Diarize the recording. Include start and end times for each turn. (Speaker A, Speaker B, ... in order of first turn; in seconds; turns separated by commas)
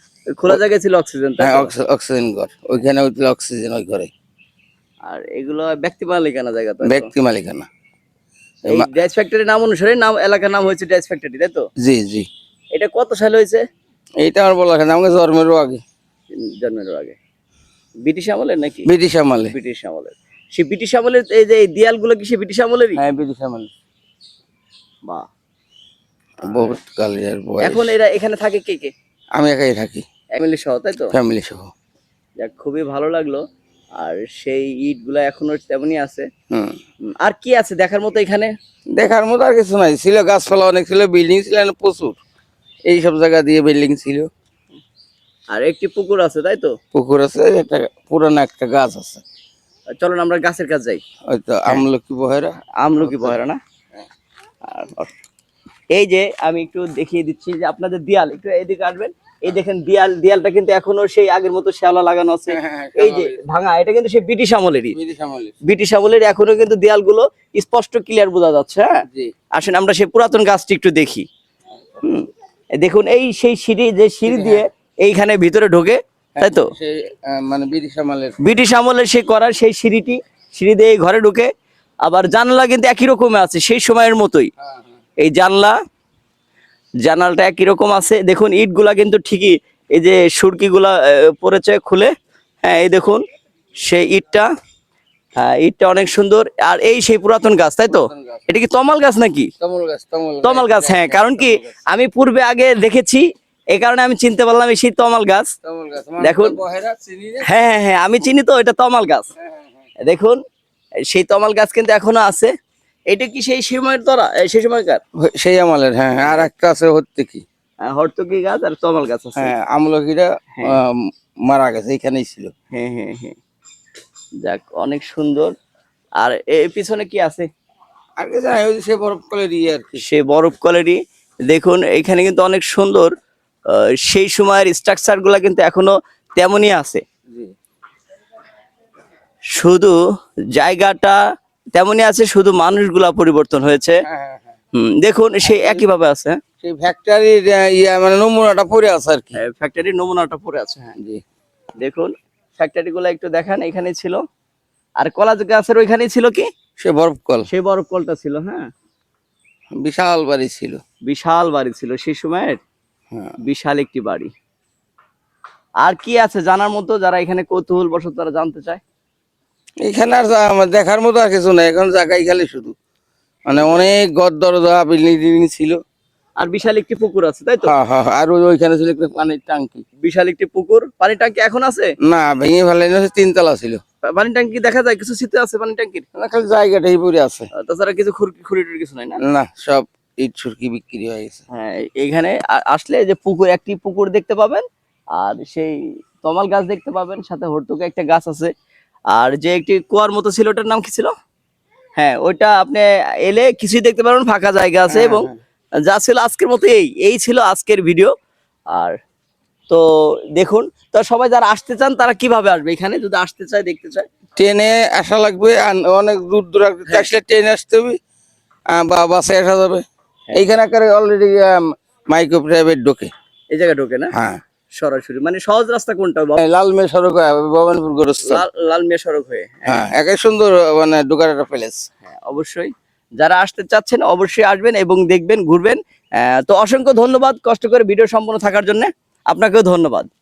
Speaker A: 0.3-1.7, Speaker B: 1.4-4.1, Speaker A: 5.1-7.1, Speaker B: 6.8-7.7, Speaker A: 8.7-11.6, Speaker B: 11.8-12.3, Speaker A: 12.7-13.6, Speaker B: 14.2-15.8, Speaker A: 16.3-17.2, Speaker A: 18.0-18.9, Speaker B: 18.9-19.5, Speaker A: 19.5-23.0, Speaker B: 23.0-23.7, Speaker B: 26.4-27.9, Speaker A: 27.6-28.9, Speaker B: 29.4-30.0, Speaker A: 30.3-31.1, Speaker B: 31.1-31.7, Speaker A: 32.4-33.4, Speaker A: 34.0-36.3, Speaker B: 36.5-36.8, Speaker A: 37.1-38.5, Speaker B: 39.0-42.2, Speaker B: 42.9-44.3, Speaker A: 45.5-46.7, Speaker B: 46.9-49.2, Speaker A: 49.9-51.0, Speaker B: 51.3-53.4, Speaker A: 52.8-53.6, Speaker A: 54.6-55.1, Speaker A: 55.9-65.0, Speaker B: 62.5-63.4, Speaker B: 64.9-65.5, Speaker A: 65.6-71.3, Speaker B: 69.1-69.3, Speaker A: 72.0-76.7, Speaker B: 74.3-74.6, Speaker B: 76.4-78.4, Speaker A: 78.4-81.5, Speaker A: 82.0-84.5, Speaker A: 85.2-85.8, Speaker A: 87.0-92.1, Speaker A: 92.6-93.2, Speaker A: 93.8-94.5, Speaker A: 95.3-99.5, Speaker B: 97.9-98.5, Speaker B: 99.6-101.8, Speaker A: 100.4-105.5, Speaker B: 105.6-107.5, Speaker A: 106.2-106.6, Speaker A: 107.4-109.3, Speaker A: 110.0-110.4, Speaker A: 111.1-112.5, Speaker A: 113.1-115.0, Speaker B: 115.2-117.4, Speaker A: 117.8-119.5, Speaker B: 119.3-122.5, Speaker A: 122.7-123.4, Speaker A: 124.4-125.5, Speaker A: 126.2-127.5, Speaker B: 128.2-130.0, Speaker A: 130.0-133.1, Speaker A: 133.7-137.0, Speaker B: 137.3-137.5, Speaker A: 139.5-140.0, Speaker A: 140.5-141.2, Speaker A: 141.7-144.0, Speaker B: 144.0-144.5, Speaker A: 144.7-146.4, Speaker B: 145.4-145.8, Speaker B: 146.6-149.4, Speaker A: 149.4-150.9, Speaker A: 151.8-154.2, Speaker A: 155.0-156.5, Speaker B: 156.8-157.5, Speaker A: 157.5-158.7, Speaker B: 159.8-160.8, Speaker A: 161.1-162.6, Speaker A: 163.4-164.3, Speaker A: 165.8-168.8, Speaker B: 169.8-172.7, Speaker B: 173.5-175.8, Speaker A: 173.5-173.9, Speaker A: 176.4-177.7, Speaker B: 177.6-179.8, Speaker A: 180.0-181.9, Speaker B: 182.0-183.8, Speaker A: 184.0-186.1, Speaker B: 186.2-187.5, Speaker A: 187.6-189.2, Speaker B: 189.2-191.4, Speaker A: 191.5-198.5, Speaker A: 199.1-201.1, Speaker A: 202.0-205.3, Speaker B: 204.9-205.3, Speaker A: 205.9-208.1, Speaker A: 208.7-209.0, Speaker A: 209.7-214.1, Speaker B: 214.4-218.0, Speaker B: 218.7-219.8, Speaker B: 220.3-223.1, Speaker A: 223.5-224.1, Speaker B: 224.1-224.4, Speaker A: 224.8-226.4, Speaker B: 226.4-228.4, Speaker A: 228.2-229.9, Speaker B: 229.7-231.8, Speaker A: 232.0-240.1